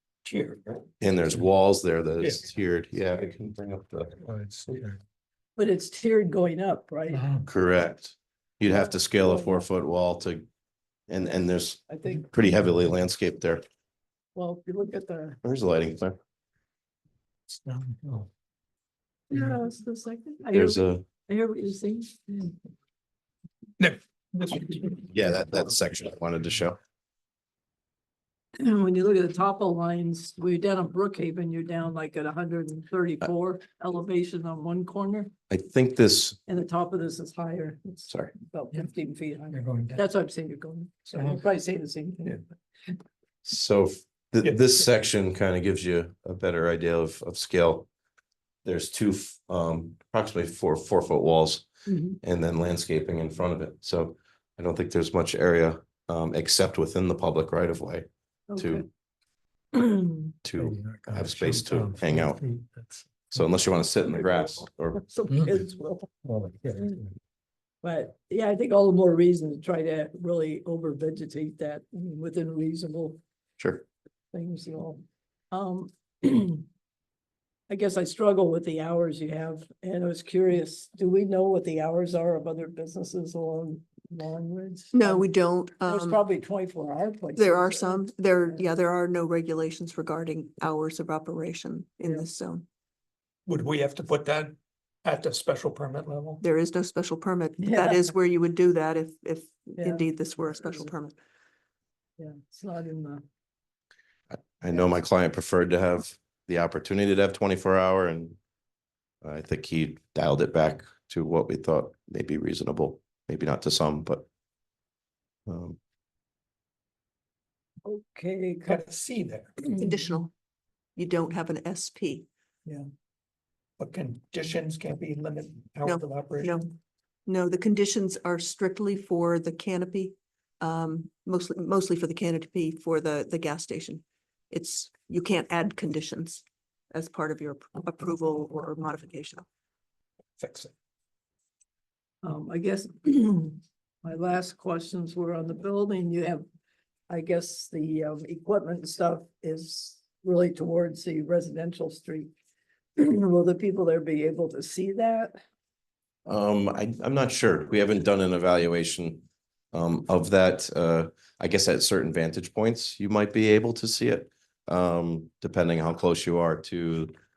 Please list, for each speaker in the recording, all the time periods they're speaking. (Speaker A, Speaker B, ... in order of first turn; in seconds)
Speaker A: 0.2-0.9, 2.2-2.5, 4.2-5.0, 7.1-7.5, 17.5-18.3, 23.8-25.0, 39.5-40.0, 41.1-41.4, 60.5-63.4, 66.2-67.0, 93.5-96.4, 118.6-119.6, 123.8-126.5, 140.4-140.7
Speaker B: 1.0-4.1, 7.5-10.4, 11.1-13.6, 15.4-16.2, 20.5-21.1, 25.1-26.8, 35.5-36.4, 43.4-47.9, 48.6-51.7, 52.2-58.8, 60.4-62.4, 63.3-65.0, 73.6-73.8, 104.3-108.4, 109.2-114.2, 115.5-115.8, 156.2-167.1
Speaker C: 5.6-7.2, 8.7-9.6, 11.9-12.3, 14.3-15.4, 19.3-22.5, 28.6-35.3, 36.5-42.5, 51.9-52.2, 58.5-58.9, 59.7-60.3, 64.3-66.1, 67.8-73.2, 74.3-76.7, 77.7-85.3, 85.8-88.6, 97.6-98.1, 99.8-100.1, 100.6-100.9, 102.2-103.2, 117.8-118.8, 142.2-146.4, 147.1-152.3, 153.0-155.4
Speaker D: 84.9-86.2, 87.4-92.7, 96.4-101.2, 119.8-120.3, 121.0-122.2, 125.8-126.7, 127.2-139.4